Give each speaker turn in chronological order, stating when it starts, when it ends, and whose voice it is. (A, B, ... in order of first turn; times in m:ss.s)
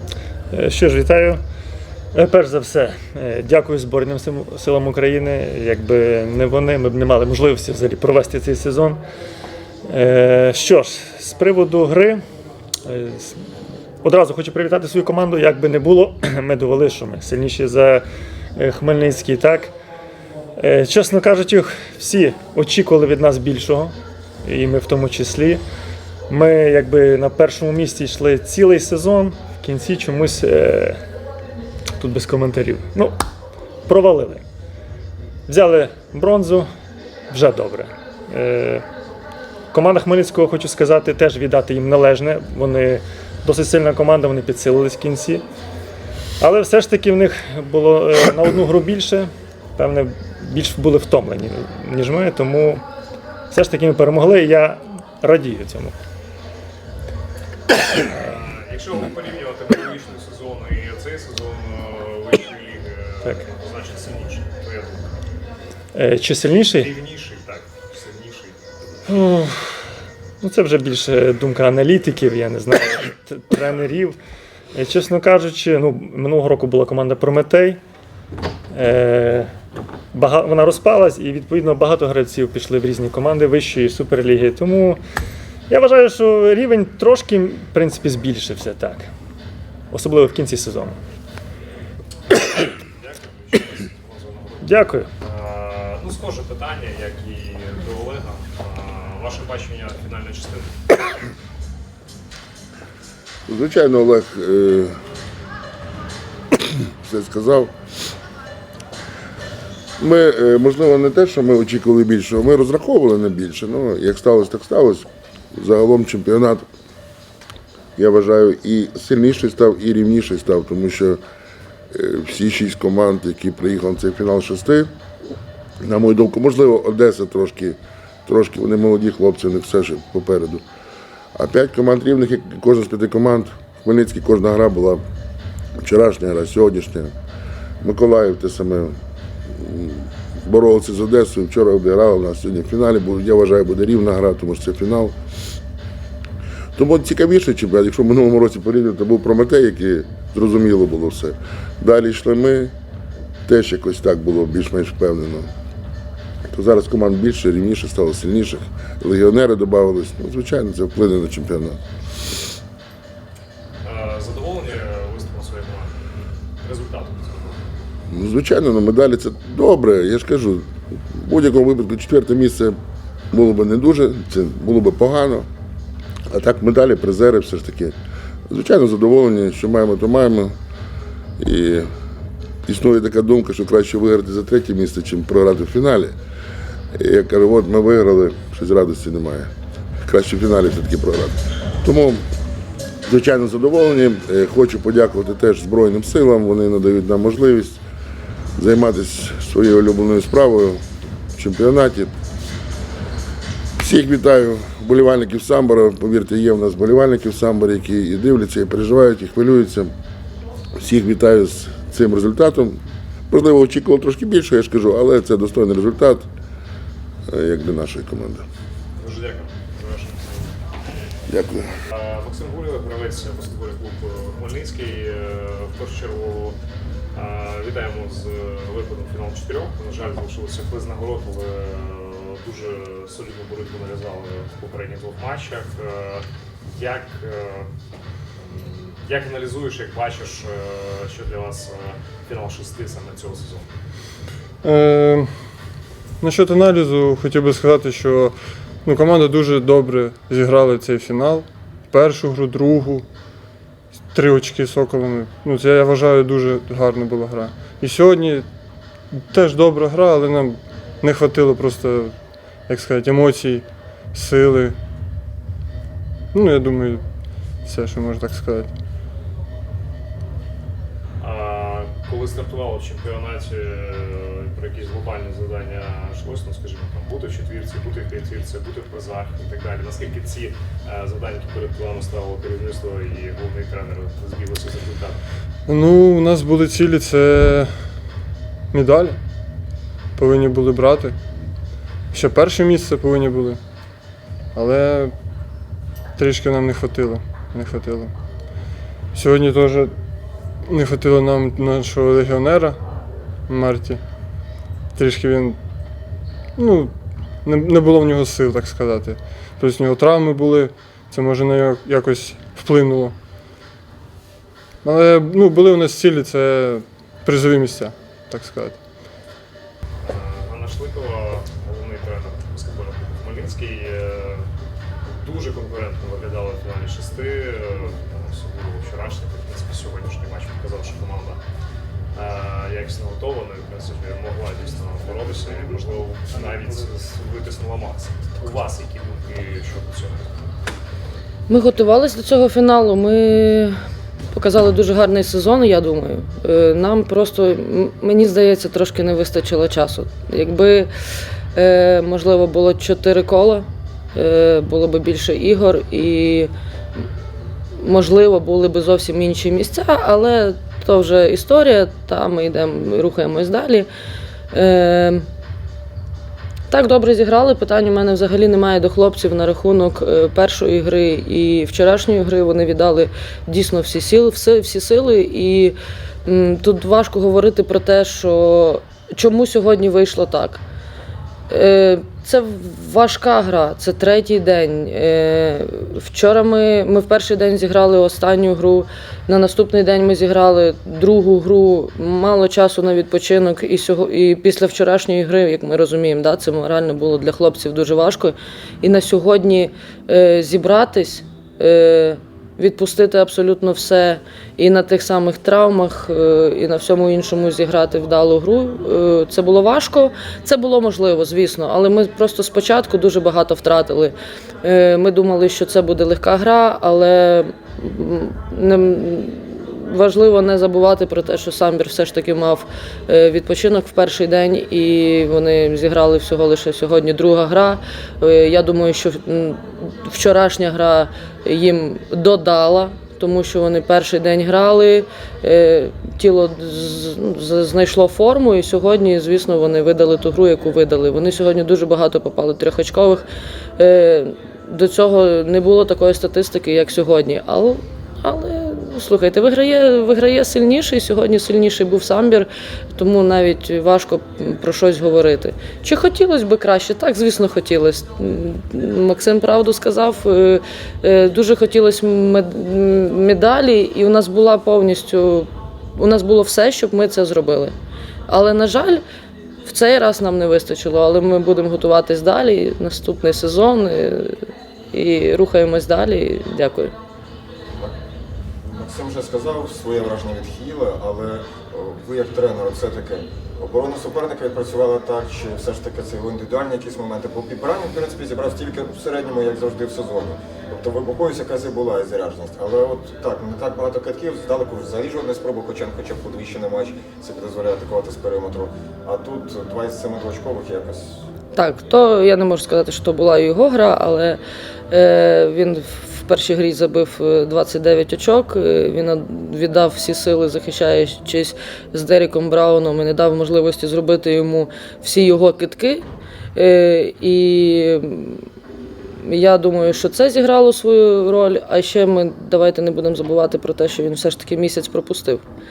0:00.5-0:01.4 A
0:02.1-0:09.0 A
0:09.9-0:12.2 A
0:12.8-0:13.4 A
0:14.0-0:18.0 A
0:18.6-0:19.7 A
0:20.6-0:25.6 A
0:26.3-0:31.0 A
0:32.0-0:33.2 A
0:33.9-0:34.4 A
0:35.5-0:36.7 A
0:37.3-0:38.8 A
0:39.7-0:45.4 A
0:46.4-0:52.8 A
0:53.5-0:55.9 A
0:58.1-1:05.1 B
1:05.9-1:06.9 A
1:06.7-1:08.6 B
1:09.1-1:09.8 A
1:10.4-1:14.2 A
1:14.7-1:17.8 A
1:18.7-1:19.5 A
1:20.1-1:25.0 A
1:25.7-1:29.1 A
1:29.9-1:31.0 A
1:32.6-1:40.7 B
1:34.6-1:35.1 A
1:43.5-1:45.0 C
1:46.5-1:47.7 C
1:50.0-1:56.6 C
1:58.0-2:01.2 C
2:01.9-2:04.9 C
2:05.8-2:10.6 C
2:11.3-2:15.0 C
2:15.8-2:17.1 C
2:17.8-2:19.0 C
2:19.5-2:25.2 C
2:26.8-2:32.7 C
2:33.4-2:35.5 C
2:36.5-2:41.8 C
2:43.8-2:46.0 B
2:46.6-2:47.6 B
2:48.1-2:52.7 C
2:53.3-2:55.5 C
2:56.3-2:57.9 C
2:58.5-3:00.6 C
3:01.4-3:01.9 C
3:02.6-3:06.1 C
3:06.9-3:09.5 C
3:10.0-3:12.2 C
3:13.0-3:17.8 C
3:18.6-3:20.8 C
3:21.4-3:22.1 C
3:23.8-3:29.9 C
3:30.8-3:36.2 C
3:37.3-3:38.4 C
3:39.0-3:40.5 B
3:41.3-3:41.7 C
3:41.9-3:46.6 B
3:47.1-3:57.7 B
3:58.4-4:03.7 B
4:04.6-4:05.3 D
4:06.2-4:13.0 D
4:14.1-4:18.5 D
4:19.1-4:22.1 D
4:22.7-4:24.8 D
4:26.3-4:27.0 D
4:27.6-4:28.7 D
4:31.2-4:45.2 B
4:45.7-4:47.7 D
4:48.7-4:49.2 D
4:50.2-4:51.1 D
4:52.1-4:53.6 D
4:54.5-4:55.1 D
4:56.2-4:58.1 D
4:59.1-4:59.9 D
5:00.6-5:02.8 D
5:03.5-5:04.0 D
5:04.9-5:05.6 D
5:06.6-5:06.9 D
5:07.4-5:13.1 D
5:14.8-5:18.8 D
5:20.0-5:24.4 B
5:25.2-5:31.4 B
5:32.1-5:40.3 B
5:41.5-5:43.7 E
5:44.3-5:50.9 E
5:51.5-5:56.5 E
5:57.8-6:03.9 E
6:04.5-6:05.2 E
6:06.7-6:20.6 E
6:21.5-7:23.2 E
7:23.8-7:47.7 E
7:48.3-7:49.0 E
7:49.6-7:54.4 E
7:54.9-7:56.9 E
7:58.7-8:21.2 F
8:21.5-8:24.4 E
8:24.9-8:36.0 E
8:36.5-8:38.4 E
8:39.2-8:45.4 E